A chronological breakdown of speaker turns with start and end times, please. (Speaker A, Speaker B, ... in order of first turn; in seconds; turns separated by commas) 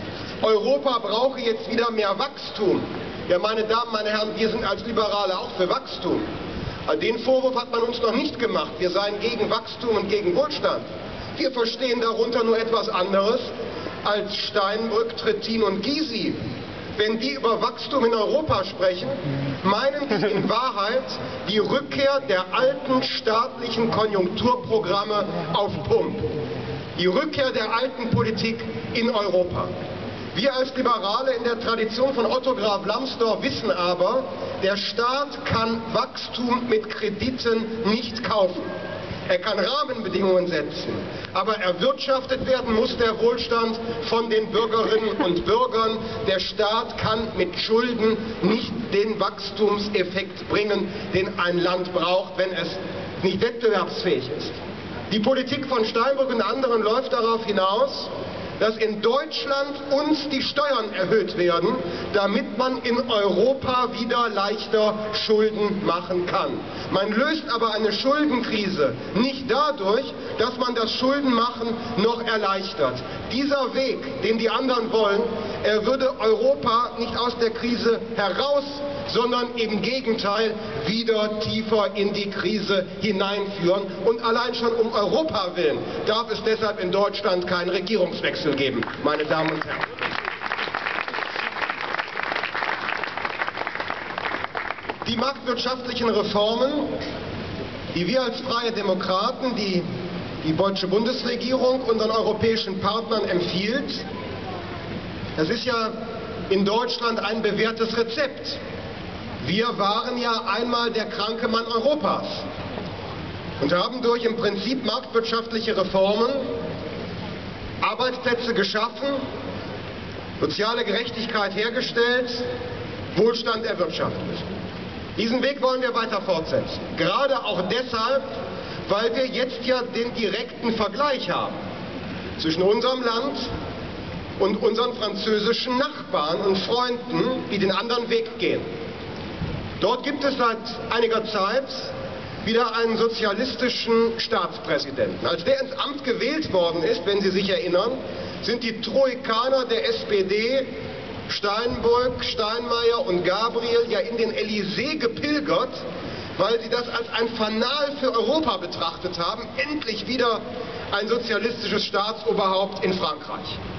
Speaker A: 0.4-6.2, Speaker A: 6.8-13.5, Speaker A: 14.0-16.4, Speaker A: 17.0-26.2, Speaker A: 27.0-29.7, Speaker A: 30.3-38.7, Speaker A: 39.3-54.5, Speaker A: 55.1-89.8, Speaker A: 95.0-96.9, Speaker A: 97.9-99.8, Speaker A: 100.4-104.0, Speaker A: 105.3-106.0, Speaker A: 106.5-108.6, Speaker A: 109.4-112.4, Speaker A: 113.6-116.5, Speaker A: 117.8-119.2, Speaker A: 120.4-122.4, Speaker A: 123.1-124.5, Speaker A: 125.2-128.2, Speaker A: 128.9-131.6, Speaker A: 132.4-133.5, Speaker A: 134.4-138.7, Speaker A: 139.8-141.9, Speaker A: 142.4-150.7, Speaker A: 151.3-155.8, Speaker A: 156.4-163.6